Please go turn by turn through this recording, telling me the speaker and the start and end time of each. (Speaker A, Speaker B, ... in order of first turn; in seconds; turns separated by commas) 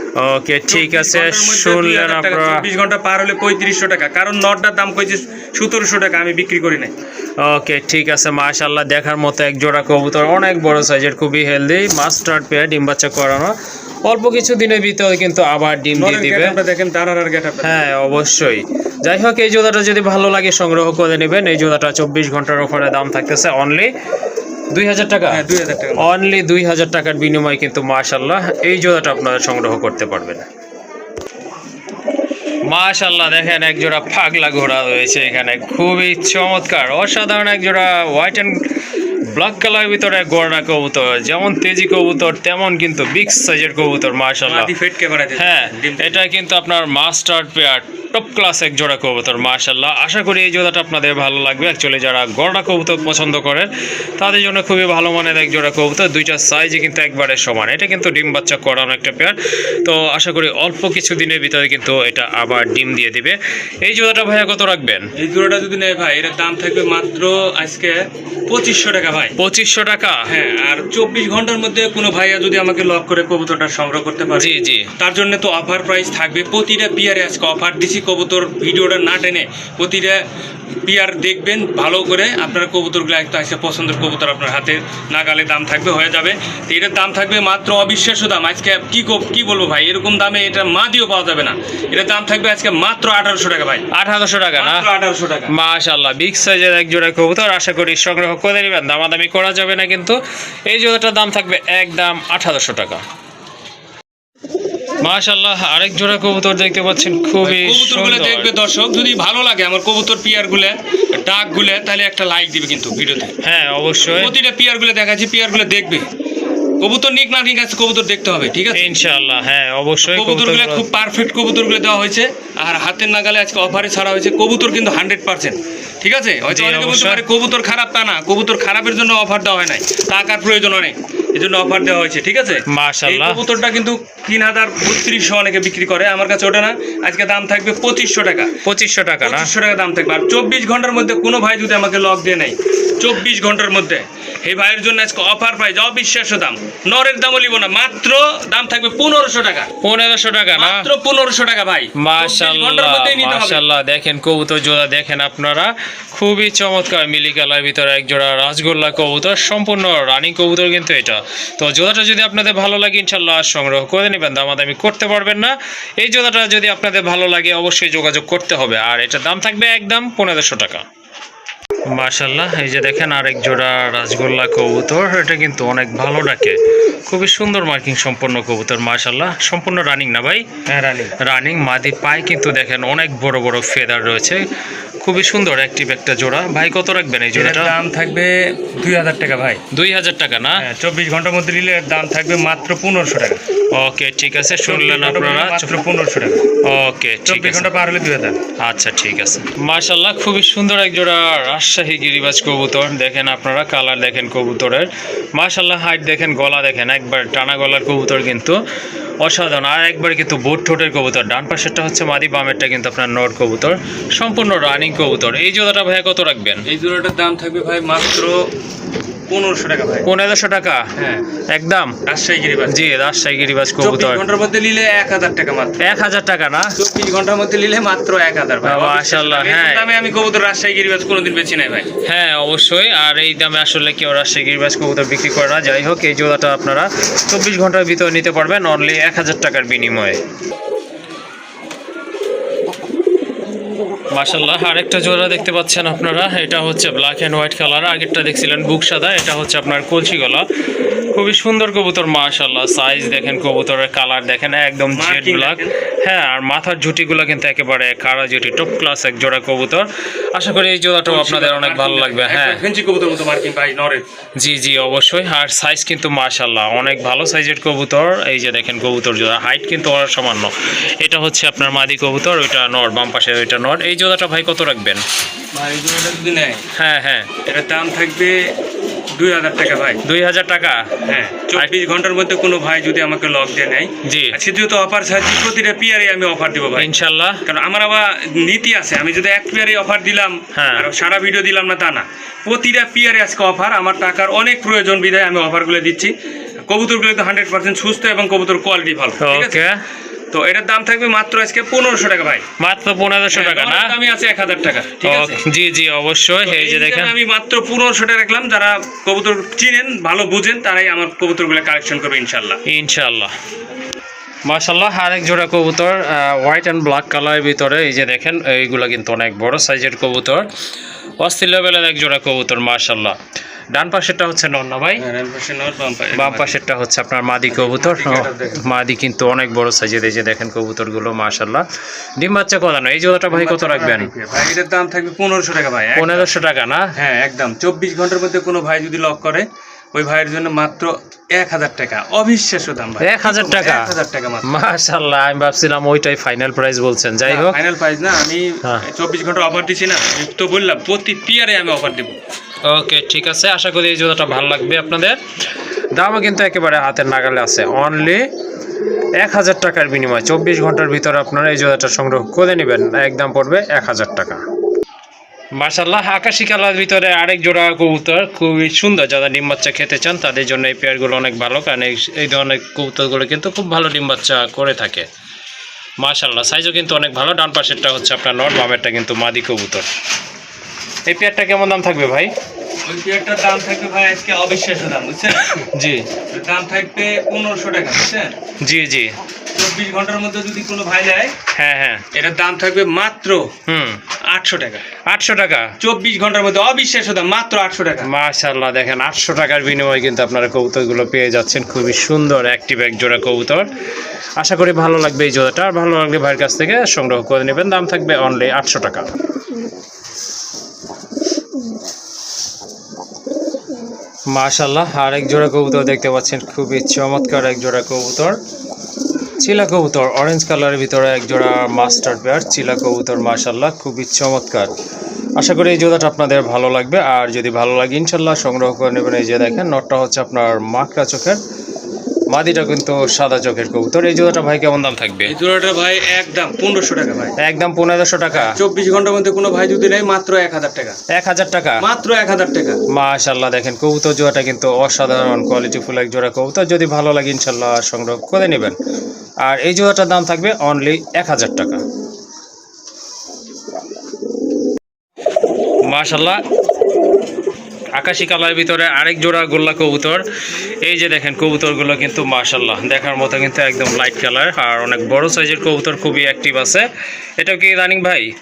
Speaker A: 0.2-2.6, Speaker B: 0.7-6.9, Speaker A: 7.4-13.5, Speaker A: 14.1-16.6, Speaker B: 15.9-17.8, Speaker A: 17.6-23.9, Speaker A: 24.7-25.4, Speaker B: 25.3-26.1, Speaker A: 26.0-30.5, Speaker A: 32.7-38.6, Speaker A: 39.3-44.7, Speaker B: 44.5-46.2, Speaker A: 45.4-65.1, Speaker B: 65.2-69.4, Speaker A: 69.4-70.3, Speaker B: 70.3-80.2, Speaker A: 74.3-74.9, Speaker B: 80.8-93.9, Speaker A: 93.9-94.9, Speaker B: 94.5-95.5, Speaker A: 95.5-100.2, Speaker A: 100.7-103.0, Speaker A: 105.0-108.5, Speaker B: 107.4-113.3, Speaker A: 113.4-114.3, Speaker B: 114.1-116.1, Speaker B: 116.8-118.9, Speaker A: 118.7-120.8, Speaker B: 120.0-138.6, Speaker A: 126.5-127.2, Speaker A: 132.7-133.4, Speaker A: 138.6-139.5, Speaker B: 139.2-149.7, Speaker A: 149.8-150.9, Speaker B: 150.6-153.7, Speaker A: 152.0-170.8, Speaker A: 171.9-176.6, Speaker A: 177.1-180.5, Speaker B: 180.7-181.2, Speaker A: 181.2-184.4, Speaker A: 185.0-187.8, Speaker B: 187.3-189.6, Speaker A: 189.7-190.7, Speaker B: 190.6-193.4, Speaker A: 193.7-195.7, Speaker B: 194.7-196.5, Speaker A: 196.6-197.7, Speaker B: 197.3-198.4, Speaker A: 198.6-208.6, Speaker A: 209.2-216.7, Speaker B: 216.7-218.5, Speaker B: 219.3-220.1, Speaker A: 220.1-220.9, Speaker B: 221.0-221.2, Speaker A: 221.5-222.0, Speaker B: 222.1-222.8, Speaker A: 222.7-224.2, Speaker B: 223.8-225.9, Speaker A: 225.8-226.8, Speaker B: 226.8-231.9, Speaker A: 228.6-229.9, Speaker A: 232.1-240.2, Speaker A: 244.1-250.4, Speaker A: 251.1-262.6, Speaker B: 254.9-255.7, Speaker B: 261.1-264.1, Speaker A: 264.4-275.0, Speaker B: 275.5-276.6, Speaker A: 276.8-277.3, Speaker B: 277.4-278.5, Speaker B: 279.1-280.0, Speaker A: 280.0-280.9, Speaker B: 281.0-286.9, Speaker A: 284.0-284.4, Speaker A: 286.8-287.4, Speaker B: 287.4-296.1, Speaker A: 290.6-290.9, Speaker B: 296.7-299.6, Speaker A: 299.2-299.8, Speaker B: 300.3-302.5, Speaker A: 302.6-303.9, Speaker B: 303.3-305.5, Speaker A: 305.0-307.1, Speaker B: 306.4-312.6, Speaker A: 312.7-313.3, Speaker A: 314.5-320.5, Speaker A: 321.2-323.2, Speaker A: 323.7-325.1, Speaker B: 325.0-326.6, Speaker A: 326.1-331.6, Speaker B: 327.5-328.7, Speaker A: 332.2-334.1, Speaker B: 333.3-336.3, Speaker A: 335.9-336.9, Speaker B: 337.0-344.5, Speaker A: 343.0-343.9, Speaker A: 344.4-347.6, Speaker B: 347.3-352.2, Speaker A: 352.7-355.2, Speaker A: 356.0-358.3, Speaker A: 359.2-364.4, Speaker A: 365.6-375.1, Speaker A: 376.0-379.9, Speaker A: 381.1-382.3, Speaker B: 382.9-385.7, Speaker A: 385.7-386.1, Speaker B: 386.3-388.4, Speaker A: 388.6-389.1, Speaker B: 389.5-391.4, Speaker A: 391.5-392.1, Speaker B: 392.1-393.5, Speaker A: 393.7-394.0, Speaker B: 394.3-394.9, Speaker A: 395.1-395.7, Speaker B: 395.8-398.1, Speaker A: 398.0-403.7, Speaker A: 404.4-409.1, Speaker A: 414.3-418.4, Speaker A: 419.4-424.7, Speaker A: 425.4-431.4, Speaker A: 432.3-435.3, Speaker B: 435.3-437.4, Speaker A: 437.4-438.6, Speaker B: 438.3-441.0, Speaker A: 441.1-441.8, Speaker B: 441.8-442.8, Speaker A: 442.9-448.8, Speaker A: 449.4-451.8, Speaker A: 455.9-456.4, Speaker A: 458.0-460.2, Speaker A: 460.8-466.9, Speaker A: 467.4-468.3